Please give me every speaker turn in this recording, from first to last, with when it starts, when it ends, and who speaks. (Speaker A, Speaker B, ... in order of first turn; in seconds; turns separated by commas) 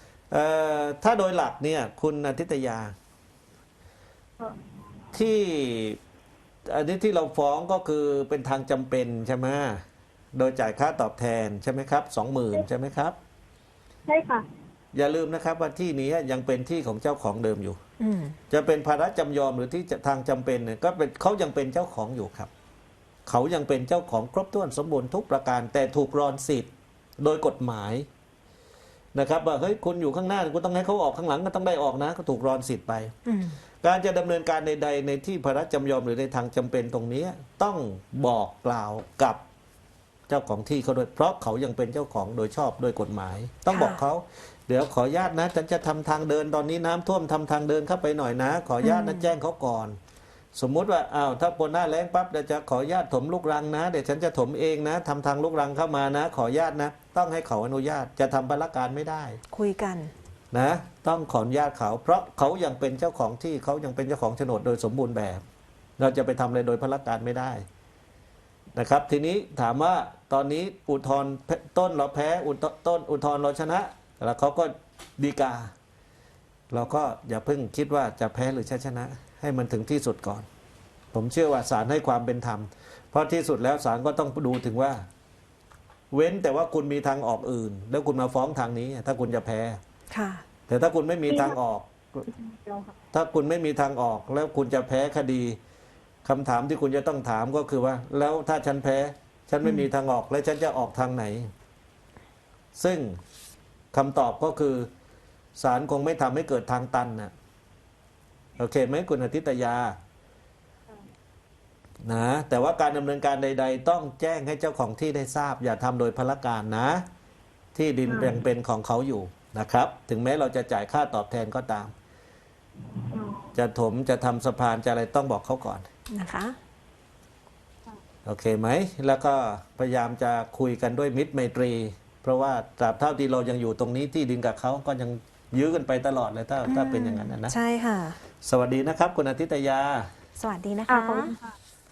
Speaker A: 0.3-2.9, Speaker A: 5.1-6.0, Speaker A: 6.7-9.8, Speaker A: 10.3-13.2, Speaker B: 14.1-14.4, Speaker A: 14.9-17.8, Speaker C: 18.0-18.4, Speaker A: 18.5-22.5, Speaker A: 23.2-28.1, Speaker A: 29.1-33.1, Speaker C: 33.2-33.6, Speaker A: 33.8-39.4, Speaker A: 40.3-50.0, Speaker C: 43.7-44.0, Speaker C: 48.8-49.3, Speaker A: 50.5-59.4, Speaker C: 59.5-60.1, Speaker A: 60.5-65.4, Speaker A: 66.0-67.6, Speaker A: 68.8-75.7, Speaker A: 76.7-80.5, Speaker A: 81.1-85.0, Speaker A: 86.1-89.8, Speaker C: 90.1-90.4, Speaker A: 90.7-92.2, Speaker B: 91.3-91.5, Speaker B: 92.3-92.9, Speaker A: 93.1-95.6, Speaker A: 96.2-101.5, Speaker A: 102.8-103.2, Speaker A: 103.9-104.9, Speaker A: 105.6-107.3, Speaker A: 108.6-110.0, Speaker A: 112.0-117.0, Speaker A: 117.7-121.9, Speaker B: 118.0-118.4, Speaker B: 123.0-123.5, Speaker A: 123.5-125.9, Speaker C: 126.1-126.5, Speaker A: 128.2-137.5, Speaker C: 136.6-138.2, Speaker A: 138.4-140.1, Speaker C: 140.3-141.3, Speaker B: 140.9-141.6